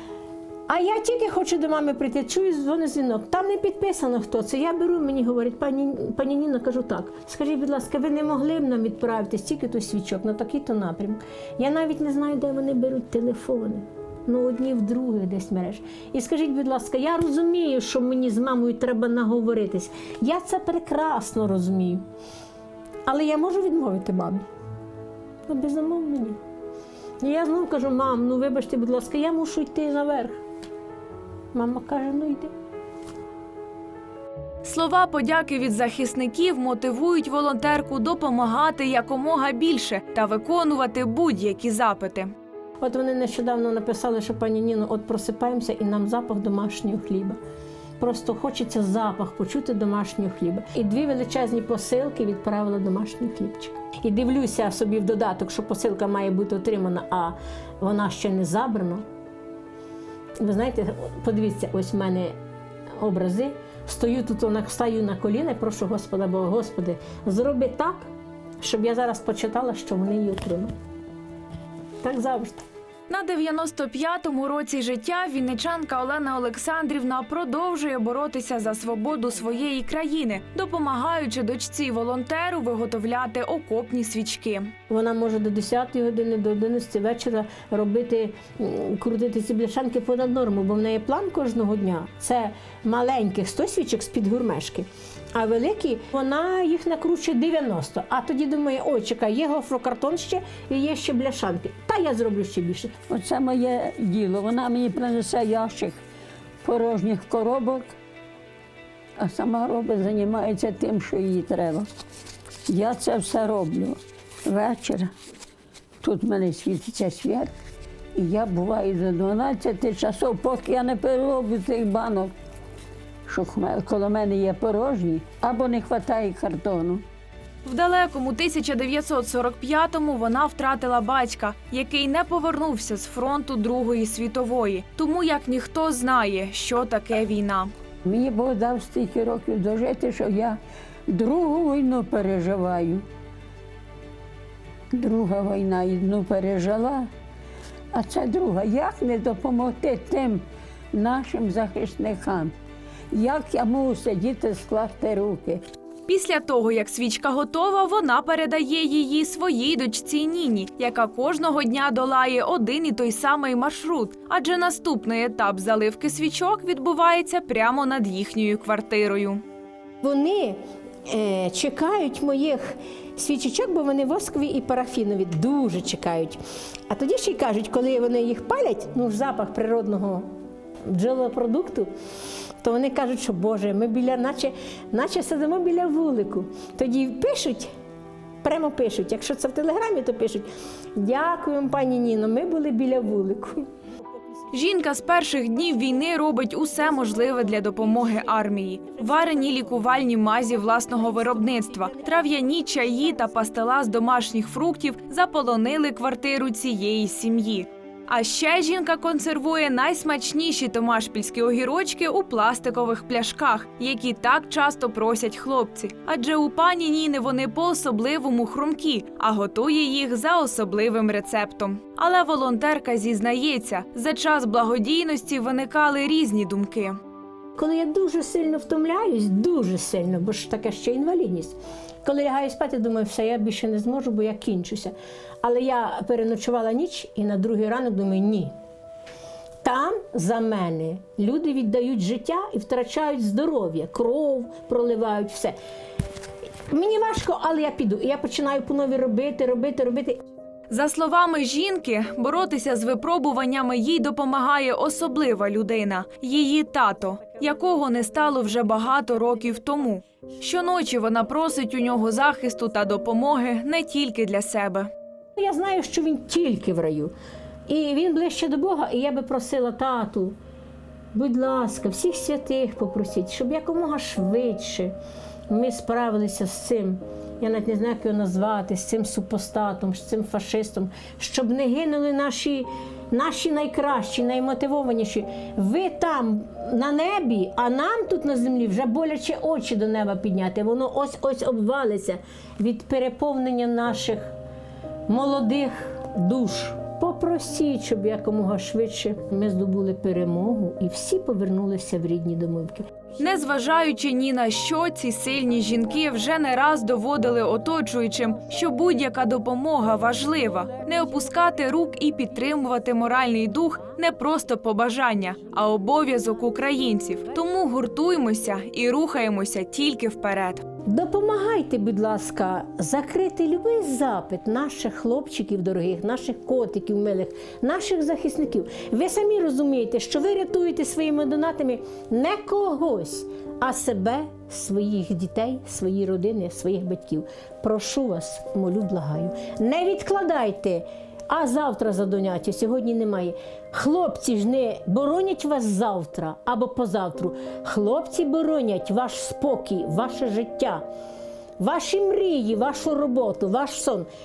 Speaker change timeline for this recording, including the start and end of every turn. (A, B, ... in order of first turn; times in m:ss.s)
0:00.7-0:22.0 A
0:23.1-0:24.4 A
0:25.5-0:26.4 A
0:27.2-0:30.4 A
0:31.5-0:32.5 A
0:34.6-0:42.3 B
0:42.8-0:47.4 A
0:48.0-0:59.0 A
1:00.4-1:02.4 A
1:03.0-1:08.1 A
1:08.6-1:10.7 A
1:12.0-1:12.6 A
1:13.1-1:24.7 B
1:24.9-1:42.9 A
1:43.1-1:46.0 C
1:46.6-1:47.9 C
1:49.2-1:51.9 C
1:52.7-1:55.1 C
1:56.0-1:57.5 C
1:58.2-2:02.3 C
2:03.3-2:07.0 C
2:07.6-2:17.7 B
2:18.0-2:23.0 C
2:24.9-2:27.1 C
2:27.9-2:32.5 C
2:33.1-2:35.6 C
2:36.1-2:49.4 B
2:50.0-2:56.4 A
2:56.9-3:00.3 A
3:00.9-3:01.9 A
3:02.6-3:07.7 A
3:08.4-3:13.7 A
3:14.5-3:47.0 B
3:47.6-3:58.5 A
3:59.6-4:05.6 A
4:06.7-4:10.2 A
4:10.7-4:24.9 B
4:25.4-4:27.1 A
4:27.7-4:30.4 A
4:31.1-4:34.9 A
4:35.5-4:54.3 A
4:55.1-5:02.8 A
5:03.2-5:20.6 B
5:20.9-5:50.8 A
5:51.6-5:54.1 A